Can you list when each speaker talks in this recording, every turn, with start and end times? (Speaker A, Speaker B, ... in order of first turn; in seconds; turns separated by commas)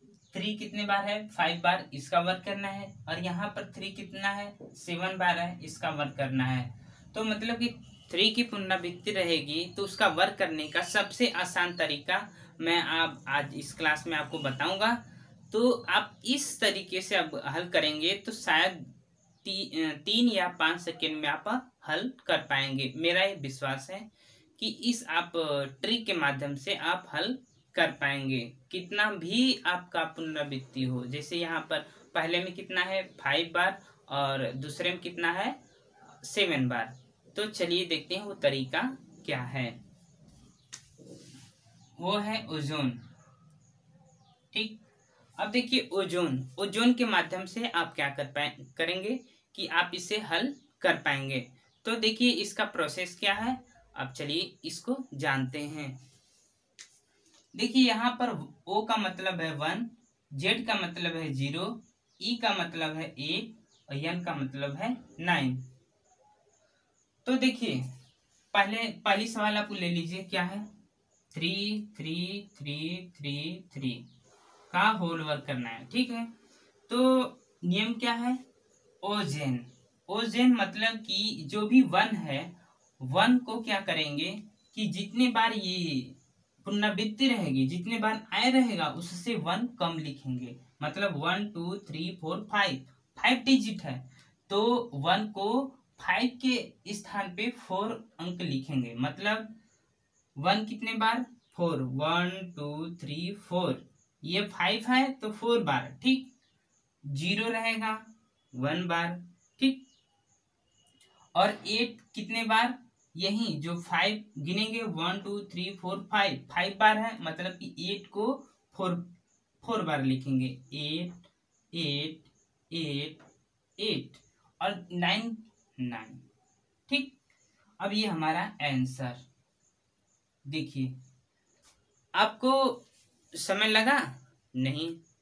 Speaker A: 0.3-18.9, Speaker A: 19.4-35.6, Speaker A: 36.2-39.8, Speaker A: 42.0-43.0, Speaker A: 44.5-44.8, Speaker A: 45.4-56.0, Speaker A: 57.5-65.6, Speaker A: 67.2-67.8, Speaker A: 68.5-70.7, Speaker A: 71.3-74.0, Speaker A: 74.7-76.3, Speaker A: 76.9-78.4, Speaker A: 79.0-99.5, Speaker A: 100.4-106.3, Speaker A: 107.0-109.8, Speaker A: 111.3-119.1, Speaker A: 119.6-123.2, Speaker A: 123.8-126.2, Speaker A: 126.9-127.2, Speaker A: 127.8-129.2, Speaker A: 130.5-130.9, Speaker A: 132.2-135.0